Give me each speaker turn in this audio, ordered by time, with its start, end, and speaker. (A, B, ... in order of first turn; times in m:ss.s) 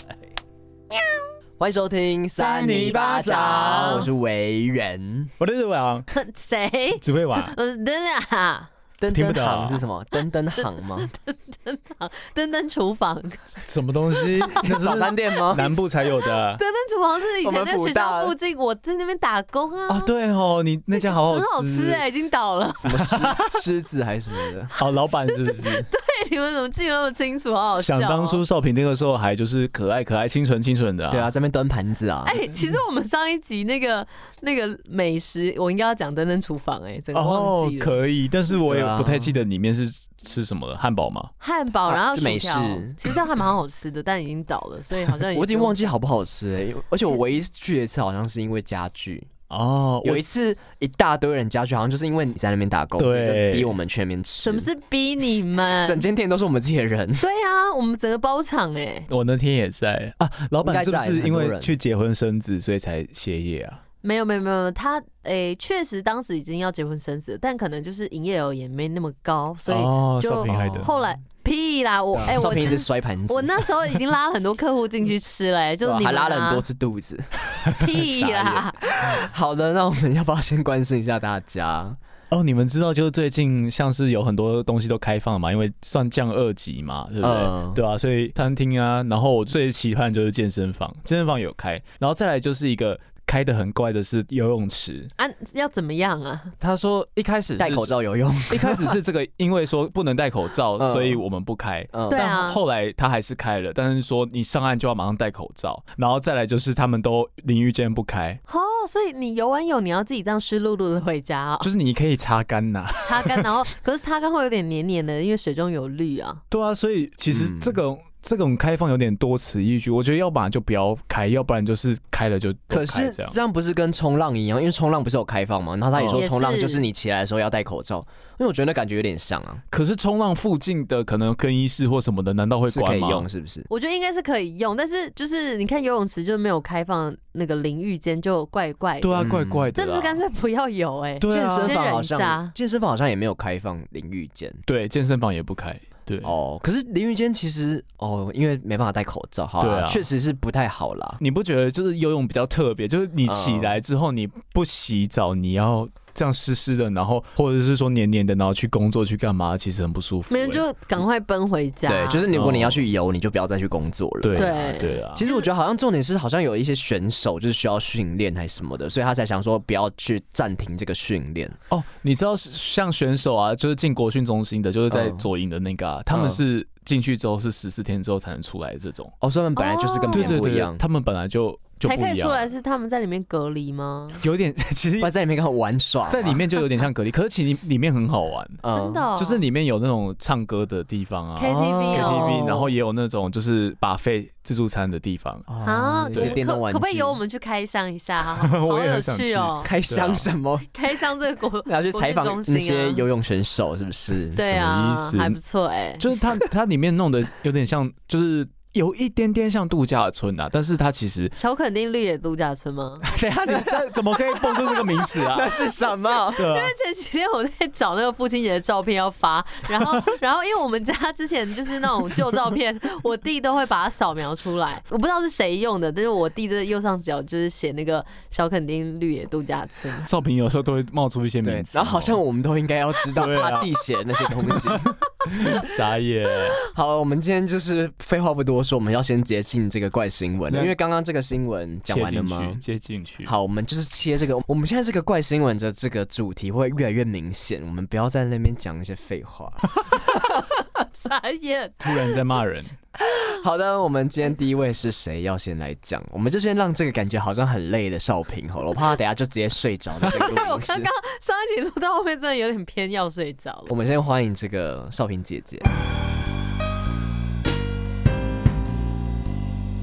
0:01.6-0:05.3 A
0:02.4-0:04.1 B
0:02.6-0:04.0 C
0:05.4-0:06.1 C
0:06.1-0:08.7 B
0:07.0-0:07.5 C
0:09.0-0:11.1 A
0:09.1-0:09.8 C
0:10.6-0:13.6 B
0:13.6-0:16.6 C
0:14.1-0:14.7 B
0:14.6-0:15.8 A
0:16.3-0:20.1 B
0:17.4-0:18.4 A
0:19.9-0:22.0 C
0:21.0-0:23.3 B
0:22.8-0:24.7 A
0:23.1-0:23.6 C
0:24.8-0:25.9 C
0:25.1-0:28.4 B
0:27.8-0:31.3 C
0:31.1-0:32.4 A
0:32.2-0:38.0 B
0:37.2-0:41.3 C
0:38.5-0:39.4 A
0:41.4-0:45.9 B
0:41.8-0:43.0 A
0:45.3-0:49.3 A
0:49.5-0:50.3 C
0:50.0-0:54.7 A
0:53.0-0:53.7 C
0:54.4-0:56.0 B
0:55.8-0:57.2 A
0:57.2-0:59.1 B
0:59.1-1:03.8 C
1:00.6-1:01.8 A
1:04.0-1:16.6 B
1:09.7-1:10.9 C
1:10.5-1:11.1 A
1:12.2-1:13.6 A
1:15.8-1:22.0 A
1:17.8-1:18.8 B
1:22.3-1:35.1 C
1:27.2-1:27.8 A
1:35.2-1:36.5 B
1:36.6-1:37.9 C
1:37.6-1:39.0 A
1:38.5-1:48.4 C
1:40.8-1:41.2 A
1:41.9-1:42.4 A
1:42.1-1:42.6 B
1:48.5-1:51.7 B
1:51.6-1:53.6 C
1:53.0-1:56.4 B
1:56.5-2:03.4 C
1:57.3-1:57.8 A
2:02.7-2:09.6 A
2:06.0-2:06.2 C
2:06.2-2:06.8 B
2:09.7-2:13.3 C
2:12.7-2:13.7 A
2:13.7-2:22.5 B
2:19.0-2:20.2 C
2:19.2-2:19.7 A
2:21.2-2:21.8 C
2:21.3-2:24.6 A
2:24.7-2:26.3 C
2:26.2-2:31.2 A
2:29.6-2:30.1 C
2:31.2-2:40.6 C
2:33.2-2:33.8 A
2:40.3-2:42.3 B
2:41.9-2:51.6 A
2:42.3-2:42.9 C
2:44.2-2:45.3 C
2:44.4-2:45.5 B
2:51.7-2:59.1 C
2:54.9-2:55.3 A
2:56.1-2:56.4 A
2:59.2-3:00.8 A
2:59.6-3:00.4 B
3:00.1-3:02.5 C
3:01.8-3:04.2 B
3:04.2-3:05.1 C
3:05.0-3:06.5 A
3:06.1-3:08.6 C
3:08.6-3:09.1 A
3:08.7-3:09.4 B
3:09.2-3:15.5 C
3:11.4-3:12.5 B
3:11.5-3:12.7 A
3:15.5-3:17.2 A
3:15.6-3:19.7 B
3:16.1-3:16.4 C
3:18.3-3:20.3 C
3:19.6-3:20.7 A
3:20.7-3:23.0 B
3:21.7-3:24.6 A
3:24.4-3:26.1 B
3:24.5-3:25.4 C
3:26.0-3:31.4 C
3:31.4-3:33.1 B
3:33.0-3:35.7 C
3:33.2-3:33.9 A
3:34.5-3:36.5 A
3:35.6-3:50.1 B
3:36.4-3:36.7 C
3:50.1-3:52.2 C
3:51.4-3:54.9 A
3:53.1-3:56.6 C
3:56.7-4:02.6 A
4:00.5-4:00.8 C
4:01.9-4:03.3 C
4:03.3-4:10.4 A
4:10.9-4:12.2 B
4:11.8-4:12.7 C
4:13.0-4:20.9 A
4:20.1-4:23.7 B
4:23.7-4:25.7 A